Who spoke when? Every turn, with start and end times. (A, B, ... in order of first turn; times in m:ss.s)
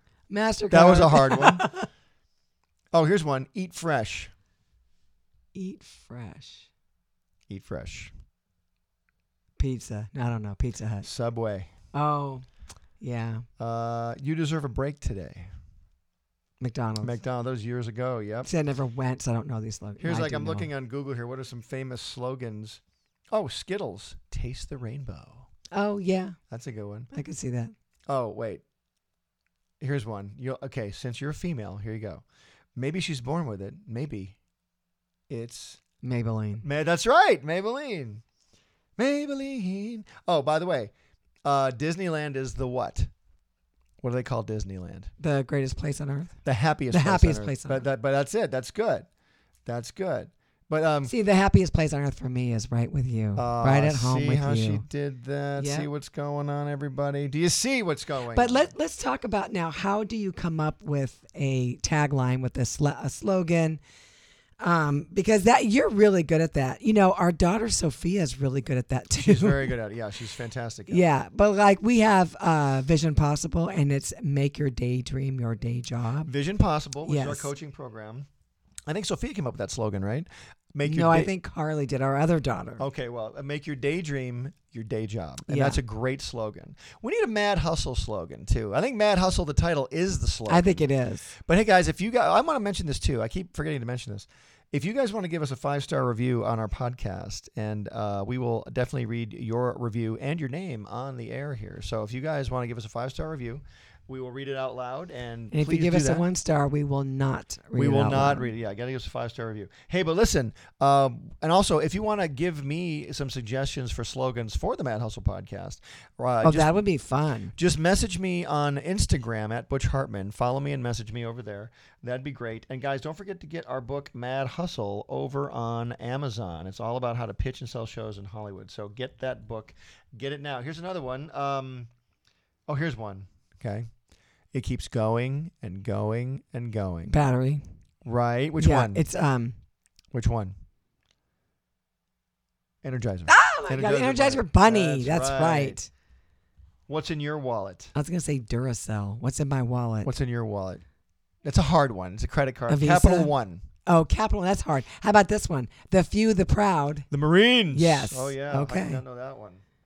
0:00.3-0:01.9 A
0:00.7-0:01.7 B
0:02.9-0:04.3 B
0:05.5-0:06.7 A
0:07.5-0:08.1 B
0:09.6-0:11.1 A
0:11.0-0:11.7 B
0:11.9-0:12.4 A
0:13.0-0:13.4 A
0:13.6-0:15.5 B
0:16.6-0:17.2 A
0:17.0-0:18.5 B
0:18.4-0:20.7 A
0:20.0-0:25.5 B
0:25.7-0:26.4 A
0:26.5-0:27.1 B
0:27.1-0:27.7 A
0:28.1-0:28.6 B
0:29.8-0:32.2 B
0:32.8-0:34.4 B
0:35.3-0:35.8 B
0:36.0-0:36.6 A
0:36.6-0:38.2 B
0:39.0-0:40.9 B
0:41.4-0:43.1 B
0:44.0-0:45.1 B
0:45.2-0:46.3 A
0:46.4-0:49.1 B
0:46.9-0:47.8 A
0:49.6-0:51.1 B
0:51.0-0:54.8 A
0:53.4-0:58.7 B
0:55.6-0:55.9 A
0:58.3-1:03.8 A
1:04.6-1:09.7 A
1:09.2-1:11.0 B
1:10.9-1:16.3 A
1:16.2-1:18.3 B
1:17.0-1:17.5 A
1:18.9-1:21.3 B
1:20.8-1:22.8 A
1:22.8-1:30.8 B
1:25.5-1:25.8 A
1:30.5-1:31.3 A
1:31.4-1:46.2 B
1:45.5-1:48.5 A
1:47.7-1:56.7 B
1:56.4-1:57.5 A
1:57.6-2:11.9 B
2:12.7-2:13.9 B
2:14.5-2:17.2 B
2:17.1-2:17.6 A
2:18.0-2:19.0 B
2:18.6-2:19.6 A
2:20.1-2:20.5 B
2:22.8-2:25.8 B
2:23.3-2:25.9 A
2:26.9-2:27.9 B
2:27.9-2:30.1 A
2:30.0-2:30.8 B
2:31.4-2:33.6 B
2:32.7-2:33.3 A
2:33.8-2:37.0 A
2:37.1-2:39.6 B
2:37.7-2:39.0 A